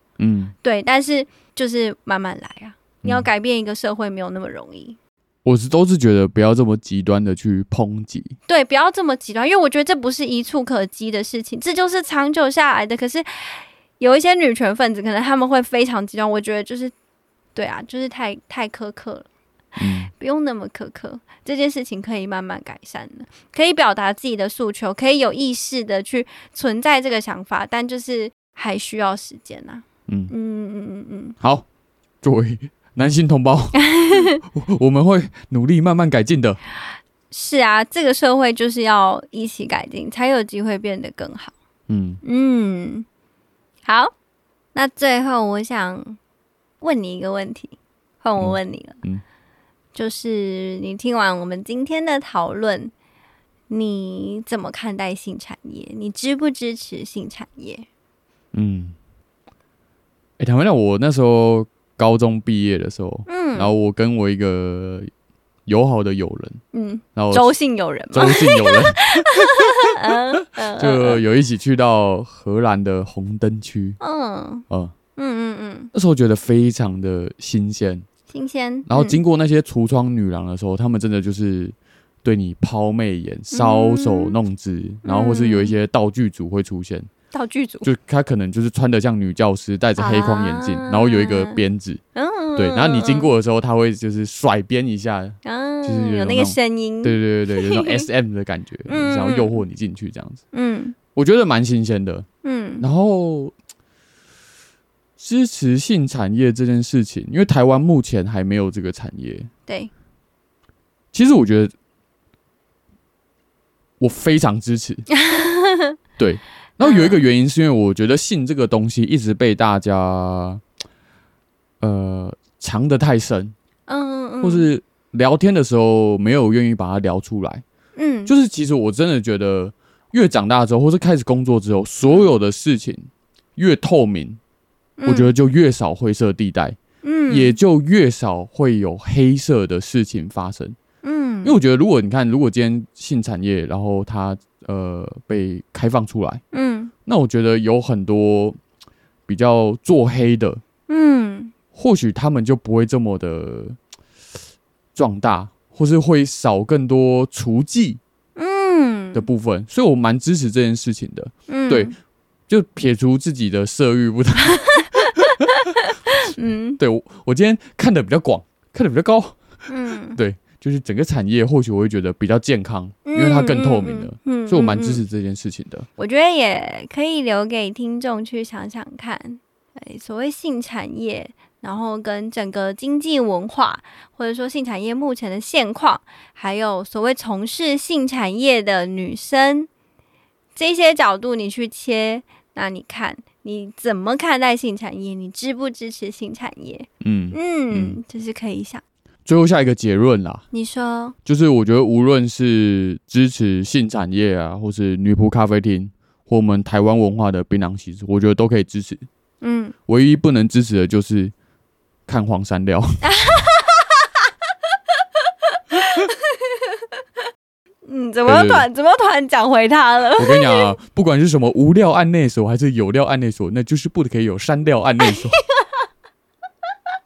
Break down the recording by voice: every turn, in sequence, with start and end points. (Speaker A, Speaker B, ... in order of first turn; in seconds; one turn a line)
Speaker A: 0.2-0.5
Speaker B: 0.6-5.0
Speaker A: 3.0-3.3
Speaker A: 5.4-8.3
Speaker B: 8.5-16.9
Speaker B: 17.5-19.3
Speaker A: 19.8-20.1
Speaker B: 19.9-31.4
Speaker A: 31.4-31.6
Speaker A: 32.2-36.6
Speaker B: 33.9-34.4
Speaker B: 37.3-41.5
Speaker A: 41.9-42.2
Speaker B: 42.2-43.0
Speaker B: 43.8-44.1
Speaker B: 44.7-46.2
Speaker B: 46.8-49.0
Speaker A: 48.4-49.2
Speaker B: 49.9-52.9
Speaker B: 53.7-57.9
Speaker A: 58.5-59.0
Speaker A: 60.4-65.1
Speaker B: 63.3-63.7
Speaker A: 65.7-66.6
Speaker B: 66.7-71.2
Speaker A: 67.2-67.5
Speaker A: 68.1-70.2
Speaker A: 70.7-74.0
Speaker B: 74.0-75.9
Speaker A: 75.9-78.0
Speaker B: 78.3-79.2
Speaker A: 78.9-87.1
Speaker B: 83.5-84.3
Speaker B: 85.0-85.7
Speaker B: 87.3-87.9
Speaker A: 87.8-92.0
Speaker B: 90.0-91.6
Speaker B: 92.1-93.3
Speaker A: 92.5-100.4
Speaker B: 95.4-98.1
Speaker B: 98.9-99.6
Speaker B: 100.5-101.0
Speaker A: 101.1-102.2
Speaker B: 102.4-102.8
Speaker A: 102.8-103.5
Speaker A: 105.2-109.5
Speaker A: 111.1-111.7
Speaker A: 114.0-115.1
Speaker B: 115.2-116.0
Speaker A: 116.2-120.6
Speaker B: 116.8-117.2
Speaker A: 121.8-123.5
Speaker B: 123.9-124.7
Speaker A: 124.4-127.6
Speaker B: 128.0-128.3
Speaker A: 128.3-134.4
Speaker B: 135.0-135.3
Speaker A: 135.1-140.8
Speaker B: 137.0-137.6
Speaker B: 141.0-141.6
Speaker A: 141.4-146.4
Speaker B: 146.5-146.9
Speaker A: 147.1-148.6
Speaker A: 149.3-150.6
Speaker B: 150.9-151.5
Speaker A: 151.7-153.8
Speaker A: 154.9-158.0
Speaker B: 158.3-159.3
Speaker A: 159.1-161.9
Speaker B: 161.5-161.9
Speaker A: 162.5-165.5
Speaker B: 166.3-166.8
Speaker A: 166.8-169.4
Speaker B: 169.7-170.2
Speaker A: 170.1-175.9
Speaker B: 173.1-175.0
Speaker B: 176.0-189.7
Speaker B: 190.6-198.8
Speaker A: 197.0-198.0
Speaker A: 199.2-200.4
Speaker B: 200.5-201.2
Speaker A: 201.2-209.1
Speaker B: 209.4-209.7
Speaker A: 209.9-211.3
Speaker A: 212.1-213.0
Speaker B: 213.0-214.1
Speaker B: 215.5-216.9
Speaker B: 217.8-220.7
Speaker A: 218.2-218.7
Speaker A: 220.2-225.4
Speaker B: 225.0-225.9